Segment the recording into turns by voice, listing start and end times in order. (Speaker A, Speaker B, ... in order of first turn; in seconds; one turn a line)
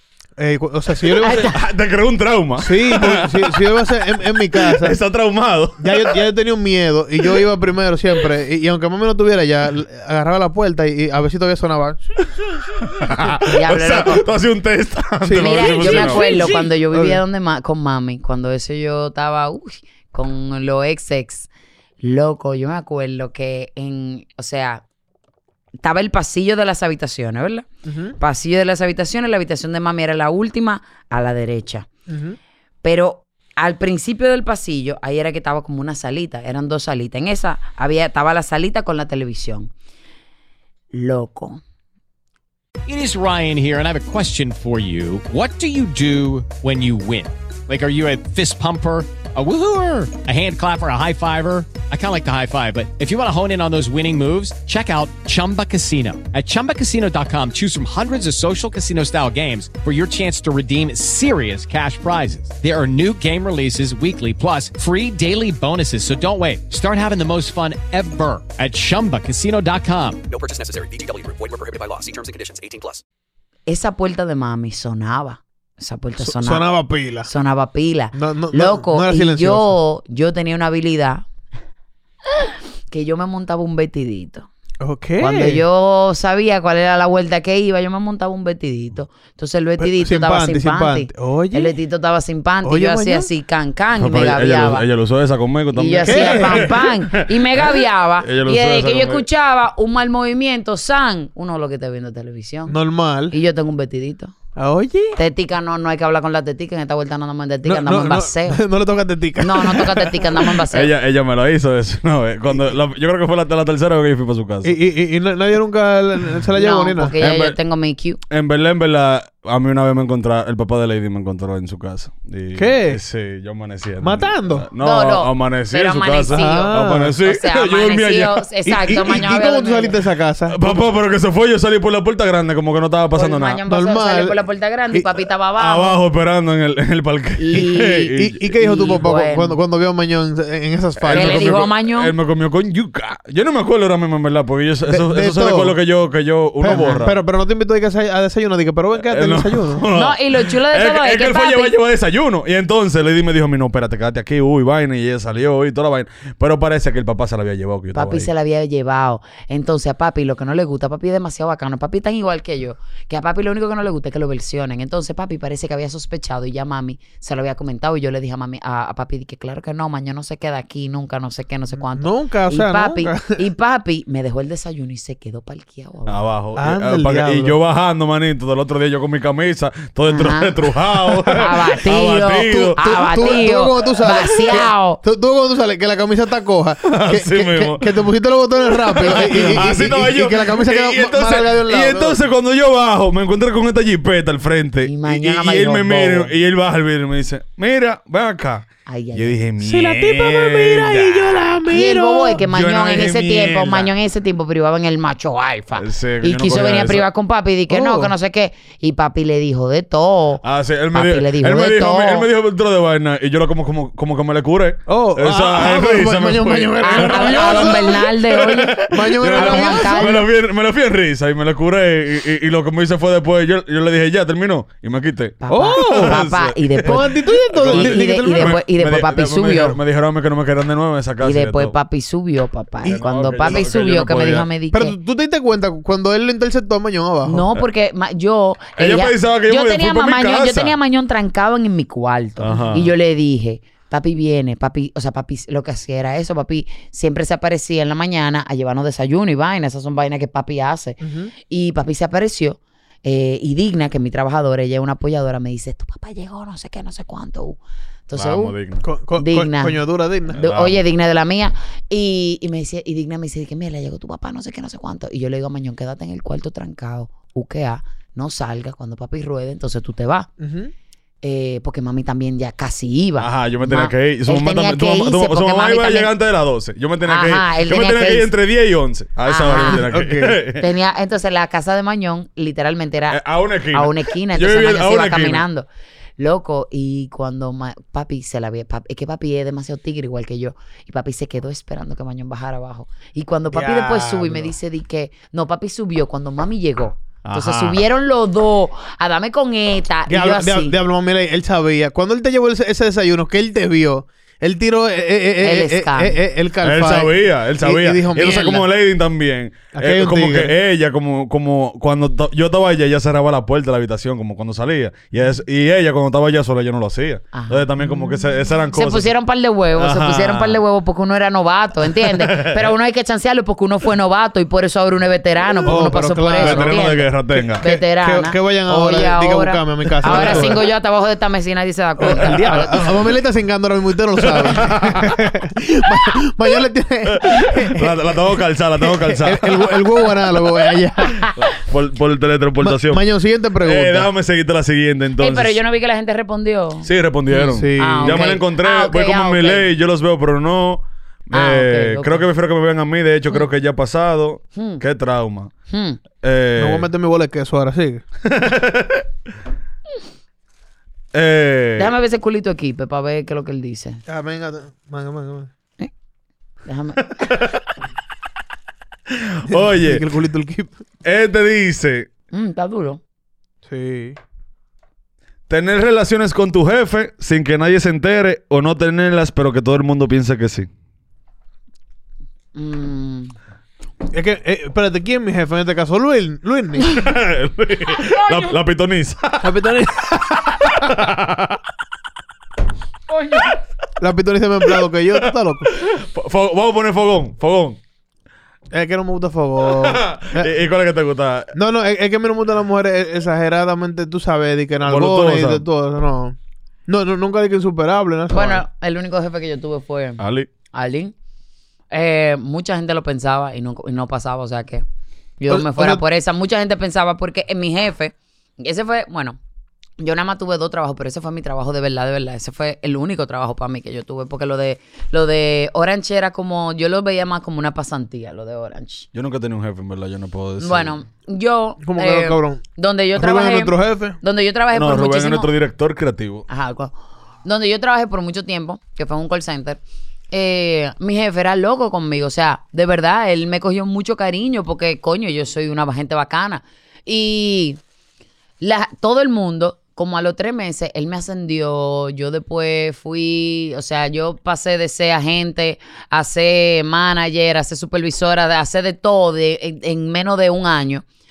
Speaker A: 0.4-1.5
Speaker B: 1.1-3.4
Speaker C: 1.2-1.6
Speaker A: 2.6-5.0
Speaker B: 4.6-6.1
Speaker A: 5.8-12.0
Speaker B: 13.0-16.5
Speaker C: 13.5-14.3
Speaker A: 15.2-17.2
Speaker C: 15.4-21.5
Speaker C: 22.0-24.8
Speaker C: 25.8-27.6
Speaker A: 27.8-28.2
Speaker C: 28.2-31.9
Speaker A: 32.1-32.4
Speaker C: 32.8-39.7
Speaker C: 40.9-41.6
Speaker D: 42.9-70.2
Speaker E: 70.3-73.0
Speaker C: 73.7-76.7
Speaker A: 76.2-77.3
Speaker C: 77.2-81.2
Speaker A: 78.1-79.7
Speaker C: 82.9-84.5
Speaker A: 84.8-85.6
Speaker C: 85.2-94.8
Speaker A: 89.8-91.7
Speaker A: 92.6-93.3
Speaker B: 94.0-99.2
Speaker C: 95.7-102.7
Speaker A: 96.1-96.7
Speaker A: 102.7-103.3
Speaker C: 103.3-104.3
Speaker A: 104.5-105.2
Speaker C: 105.2-108.6
Speaker A: 107.6-110.4
Speaker C: 109.4-110.9
Speaker B: 110.7-114.7
Speaker A: 114.6-117.1
Speaker C: 116.6-118.2
Speaker B: 117.2-117.6
Speaker B: 118.3-128.4
Speaker A: 122.5-123.0
Speaker A: 124.0-124.7
Speaker C: 124.8-129.9
Speaker A: 126.3-127.2
Speaker A: 128.7-130.8
Speaker B: 130.5-133.6
Speaker C: 133.1-136.0
Speaker A: 133.7-134.4
Speaker B: 135.6-138.4
Speaker C: 137.4-139.6
Speaker A: 137.6-141.5
Speaker B: 141.0-147.1
Speaker C: 141.1-142.1
Speaker A: 144.9-145.8
Speaker A: 146.6-149.8
Speaker B: 149.0-158.3
Speaker C: 149.9-151.7
Speaker C: 157.9-176.2
Speaker A: 171.8-173.4
Speaker B: 176.1-182.8
Speaker A: 176.6-177.6
Speaker C: 180.1-180.6
Speaker C: 181.3-185.0
Speaker A: 182.5-192.2
Speaker B: 186.9-187.8
Speaker B: 188.8-201.6
Speaker C: 194.8-196.3
Speaker C: 198.8-199.4
Speaker A: 199.6-202.4
Speaker C: 201.7-212.3
Speaker B: 202.4-203.9
Speaker B: 205.8-207.1
Speaker A: 207.7-208.1
Speaker B: 210.4-231.7
Speaker A: 214.9-218.0
Speaker C: 216.8-220.3
Speaker A: 218.9-220.2
Speaker C: 225.4-227.1
Speaker A: 225.5-226.2
Speaker A: 226.8-228.6
Speaker C: 227.7-229.8
Speaker C: 231.2-234.9
Speaker B: 232.8-234.4
Speaker A: 234.7-237.4
Speaker C: 237.2-258.6
Speaker B: 238.8-240.7
Speaker B: 242.4-242.9
Speaker A: 251.0-251.3
Speaker B: 258.1-258.8
Speaker A: 258.8-260.4
Speaker C: 259.2-259.8
Speaker B: 260.3-260.8
Speaker C: 260.4-270.3
Speaker A: 270.4-270.7
Speaker C: 271.2-276.1
Speaker B: 273.2-280.6
Speaker C: 277.0-278.3
Speaker C: 279.3-279.8
Speaker A: 279.6-280.4
Speaker C: 280.6-283.2
Speaker B: 283.1-285.4
Speaker C: 283.7-285.7
Speaker C: 286.2-300.7
Speaker A: 293.5-294.5
Speaker B: 297.2-297.8
Speaker A: 300.1-308.6
Speaker C: 305.4-306.2
Speaker B: 306.6-319.1
Speaker A: 309.7-310.5
Speaker C: 317.3-317.7
Speaker C: 318.7-332.8
Speaker B: 319.7-320.6
Speaker B: 321.9-322.7
Speaker A: 325.6-330.6
Speaker B: 326.4-327.6
Speaker B: 330.0-330.5
Speaker A: 332.0-338.0
Speaker B: 334.4-335.2
Speaker B: 337.1-339.7
Speaker A: 338.8-341.2
Speaker B: 341.4-343.0
Speaker A: 342.6-344.1
Speaker B: 343.6-345.6
Speaker C: 345.2-349.6
Speaker B: 346.8-355.5
Speaker A: 347.4-348.3
Speaker C: 351.3-352.2
Speaker C: 354.5-354.8
Speaker C: 355.7-356.0
Speaker B: 356.2-356.9
Speaker A: 356.6-358.0
Speaker B: 358.2-359.0
Speaker B: 361.1-361.9
Speaker C: 361.8-364.0
Speaker A: 364.1-365.5
Speaker C: 366.6-367.1
Speaker B: 367.2-367.6
Speaker B: 369.1-370.0
Speaker A: 369.5-370.7
Speaker B: 371.0-372.1
Speaker C: 372.3-373.0
Speaker A: 373.6-374.2
Speaker B: 375.5-380.7
Speaker C: 382.5-383.3
Speaker A: 384.1-386.9
Speaker B: 386.9-389.5
Speaker C: 388.1-388.5
Speaker A: 389.4-390.3
Speaker B: 390.4-391.6
Speaker A: 394.0-395.7
Speaker B: 395.7-397.8
Speaker A: 398.7-400.5
Speaker B: 399.6-401.5
Speaker A: 401.5-406.4
Speaker B: 404.9-405.6
Speaker A: 406.9-408.6
Speaker C: 408.3-410.2
Speaker B: 410.2-410.5
Speaker C: 410.7-411.1
Speaker C: 411.9-414.8
Speaker C: 415.4-419.4
Speaker A: 415.5-416.0
Speaker C: 420.0-429.1
Speaker B: 429.1-430.9
Speaker C: 430.6-435.5
Speaker A: 431.8-434.2
Speaker B: 434.7-436.4
Speaker C: 436.5-439.8
Speaker C: 440.3-447.8
Speaker C: 448.6-461.0